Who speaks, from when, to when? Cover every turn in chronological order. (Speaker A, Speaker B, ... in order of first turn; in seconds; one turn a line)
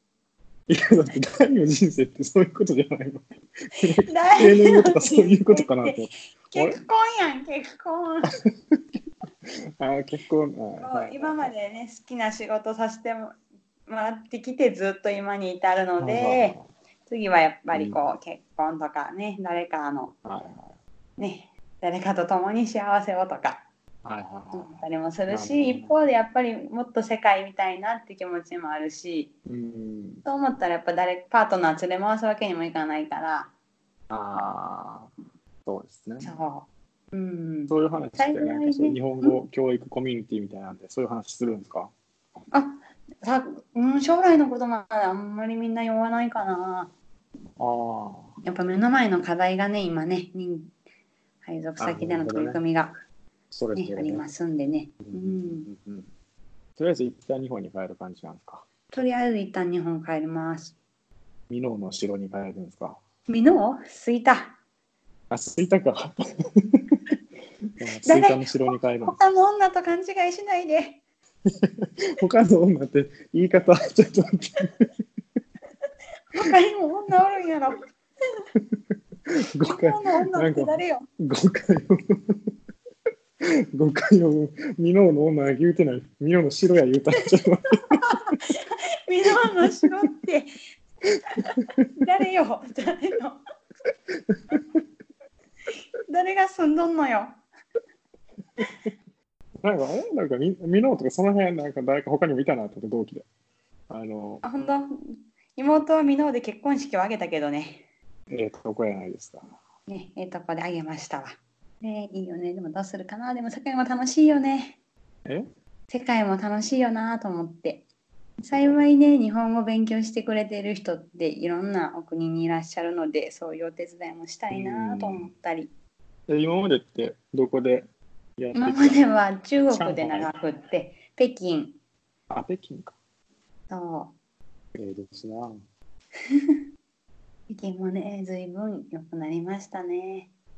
Speaker A: 0.7-6.8
Speaker B: 4.0-8.3
Speaker A: 8.4-8.8
Speaker A: 9.4-11.5
Speaker B: 10.8-13.3
Speaker B: 13.9-20.1
Speaker A: 16.0-16.6
Speaker A: 17.7-18.0
Speaker A: 20.2-20.8
Speaker B: 21.2-23.6
Speaker A: 24.0-25.9
Speaker B: 24.5-29.3
Speaker A: 29.5-30.2
Speaker B: 30.3-33.5
Speaker A: 34.1-35.1
Speaker A: 35.7-36.3
Speaker B: 36.2-39.4
Speaker A: 37.7-41.9
Speaker B: 42.5-46.9
Speaker A: 47.6-48.4
Speaker B: 48.4-50.7
Speaker B: 51.4-53.0
Speaker A: 51.8-52.6
Speaker A: 53.5-54.2
Speaker B: 53.8-55.7
Speaker A: 55.0-56.1
Speaker A: 56.8-58.7
Speaker B: 58.9-60.8
Speaker A: 61.5-63.0
Speaker B: 63.3-64.6
Speaker A: 65.3-67.0
Speaker A: 67.8-69.2
Speaker B: 68.0-68.5
Speaker B: 69.0-71.0
Speaker A: 71.5-74.8
Speaker B: 76.3-77.8
Speaker A: 78.5-82.4
Speaker B: 79.6-81.0
Speaker A: 83.4-88.4
Speaker B: 88.1-90.5
Speaker A: 91.1-91.9
Speaker B: 91.4-93.4
Speaker A: 94.3-94.8
Speaker B: 96.1-97.4
Speaker A: 99.6-103.3
Speaker A: 103.9-104.5
Speaker B: 104.4-107.8
Speaker A: 108.3-109.4
Speaker B: 109.9-114.8
Speaker B: 115.9-117.8
Speaker B: 118.5-125.7
Speaker A: 124.5-125.3
Speaker A: 126.3-127.9
Speaker A: 128.4-129.1
Speaker B: 128.6-131.8
Speaker A: 129.7-130.3
Speaker A: 132.3-133.0
Speaker B: 133.7-134.1
Speaker A: 134.8-135.6
Speaker B: 137.5-140.3